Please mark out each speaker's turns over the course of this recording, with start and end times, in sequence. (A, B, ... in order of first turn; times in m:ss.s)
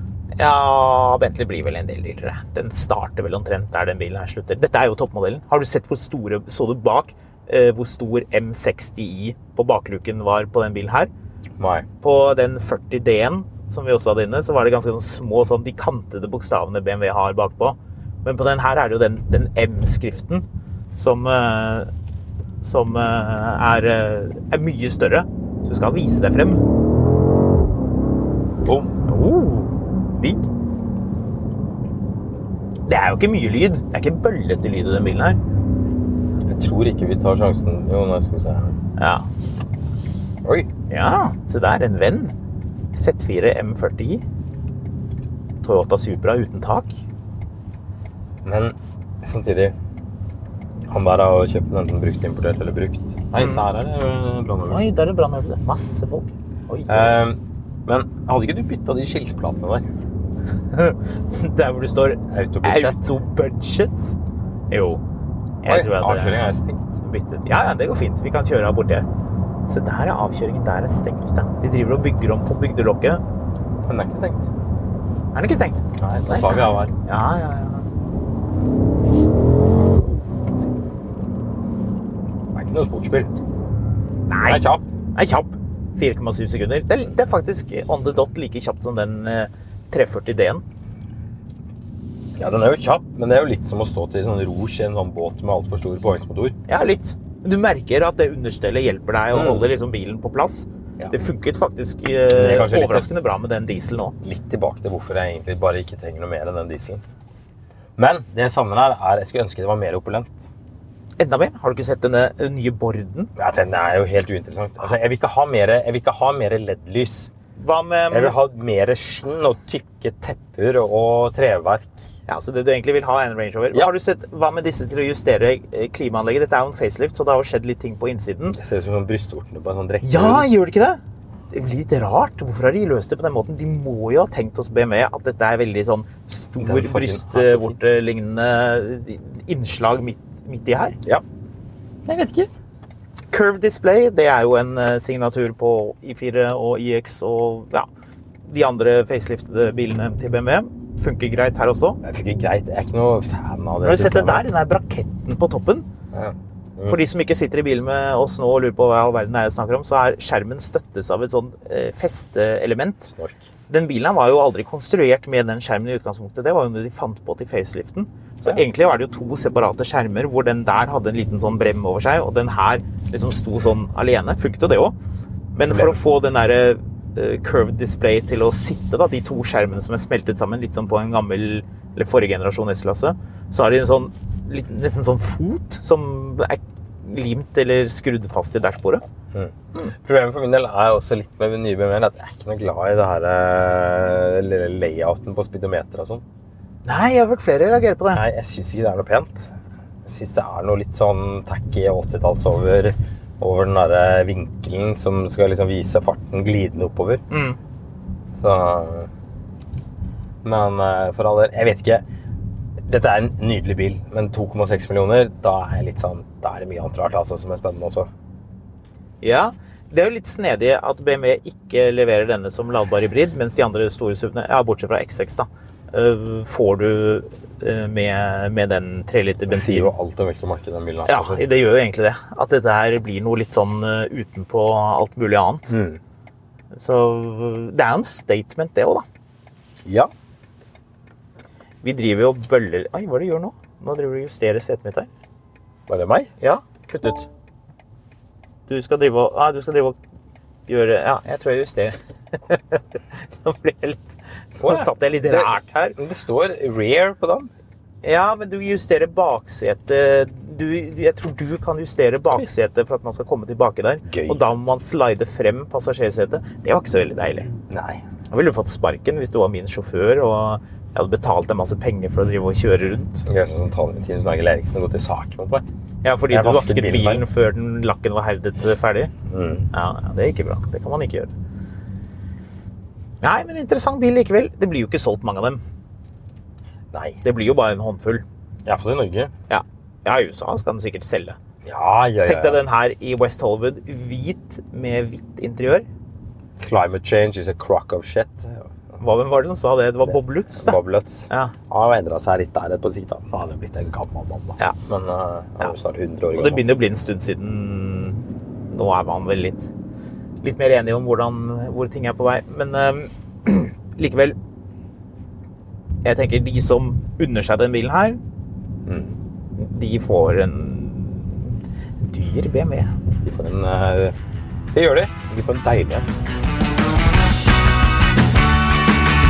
0:00.4-0:11.1 A
0:11.6-0:11.9 B
0:12.0-0:20.4 A
0:21.0-0:21.9 A
0:22.6-0:26.6 A
0:28.6-0:29.1 B
0:29.1-0:29.8 A
0:32.9-0:35.4 A
0:36.5-0:38.8 B
0:39.0-0:39.2 A
0:40.4-0:40.7 B
0:40.9-0:42.3 A
0:42.9-0:44.2 A
0:45.6-0:47.0 A
0:48.4-0:49.8 B
0:50.9-0:54.9 B
0:53.4-0:53.6 A
0:54.7-0:57.2 A
0:56.9-0:59.9 B
1:00.7-1:04.2 A
1:02.3-1:03.1 B
1:04.7-1:05.0 A
1:05.6-1:06.5 A
1:05.6-1:06.9 B
1:07.0-1:09.1 A
1:09.7-1:13.2 A
1:13.8-1:14.5 B
1:15.3-1:17.9 A
1:16.0-1:16.9 B
1:22.5-1:23.3 B
1:24.3-1:30.6 A
1:24.4-1:24.8 B
1:32.4-1:36.6 B
1:36.7-1:44.2 A
1:39.3-1:39.7 B
1:42.3-1:43.1 B
1:44.2-1:47.0 B
1:48.0-1:50.4 B
1:51.2-1:53.3 A
1:53.4-1:57.3 B
1:57.6-1:58.4 A
1:58.1-2:02.0 B
2:02.3-2:08.6 A
2:08.5-2:10.5 B
2:10.0-2:11.0 A
2:11.5-2:21.0 A
2:16.6-2:17.8 B
2:22.0-2:22.5 B
2:23.3-2:27.9 A
2:28.4-2:32.0 A
2:32.0-2:34.5 B
2:33.8-2:35.9 A
2:36.1-2:37.0 B
2:36.8-2:43.1 A
2:43.1-2:43.4 B
2:43.7-2:54.9 A
2:55.6-3:09.0 A
2:55.7-2:56.0 B
3:09.3-3:16.2 B
3:16.9-3:18.2 A
3:18.1-3:19.5 B
3:20.1-3:27.2 B
3:27.3-3:27.6 A
3:28.4-3:29.1 B
3:30.4-3:32.0 B
3:32.8-3:38.1 B
3:39.2-3:49.9 A
3:49.5-3:51.4 B
3:51.1-3:55.8 A
3:55.7-3:56.0 B
3:56.7-3:59.0 A
3:59.8-4:00.1 B
4:01.8-4:05.1 A
4:05.9-4:06.3 B
4:06.4-4:07.3 A
4:08.7-4:10.0 A
4:10.7-4:12.8 A
4:13.4-4:16.0 A
4:14.6-4:17.5 B
4:18.0-4:27.5 A
4:24.1-4:24.4 B
4:27.7-4:28.0 B
4:28.3-4:33.2 A
4:33.2-4:35.6 B
4:36.0-4:39.1 A
4:36.3-4:37.3 B
4:39.3-4:39.7 B
4:39.7-4:41.3 A
4:43.2-4:45.6 A
4:46.9-4:47.2 B
4:47.2-4:48.2 A
4:48.6-4:49.3 B
4:49.5-4:51.4 A
4:51.6-4:52.6 B
4:52.3-4:55.8 A
4:56.6-4:59.0 B
4:59.0-5:01.5 A
5:00.0-5:06.6 B
5:06.3-5:09.7 A
5:10.4-5:14.4 A
5:16.0-5:18.2 A
5:18.9-5:19.2 B
5:19.6-5:22.9 A
5:23.2-5:24.2 B
5:24.7-5:26.1 B